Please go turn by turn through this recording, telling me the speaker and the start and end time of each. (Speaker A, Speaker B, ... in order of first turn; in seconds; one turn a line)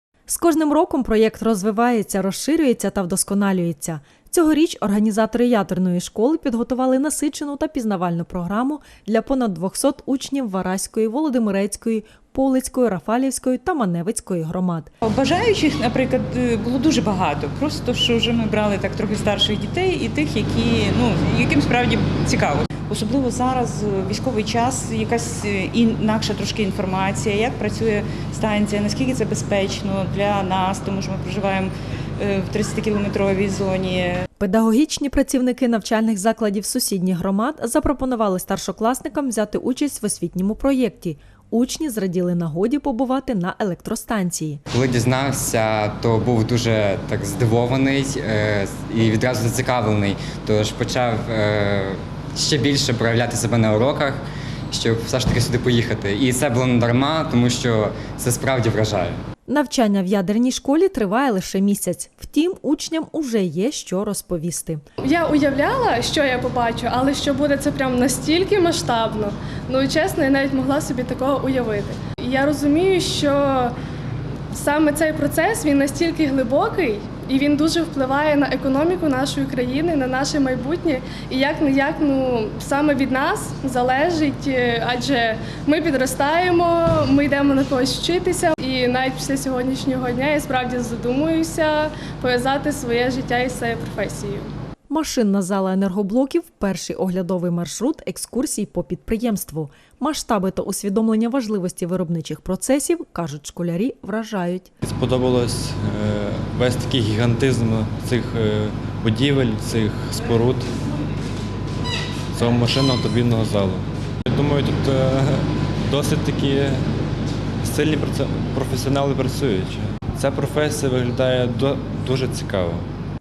Speaker A: 0.3-14.9
Speaker B: 15.0-34.2
Speaker A: 34.4-44.6
Speaker C: 44.7-59.2
Speaker A: 59.5-64.8
Speaker D: 65.0-73.7
Speaker D: 74.5-94.5
Speaker A: 94.9-104.7
Speaker E: 104.8-110.7
Speaker E: 112.3-116.8
Speaker E: 117.6-122.9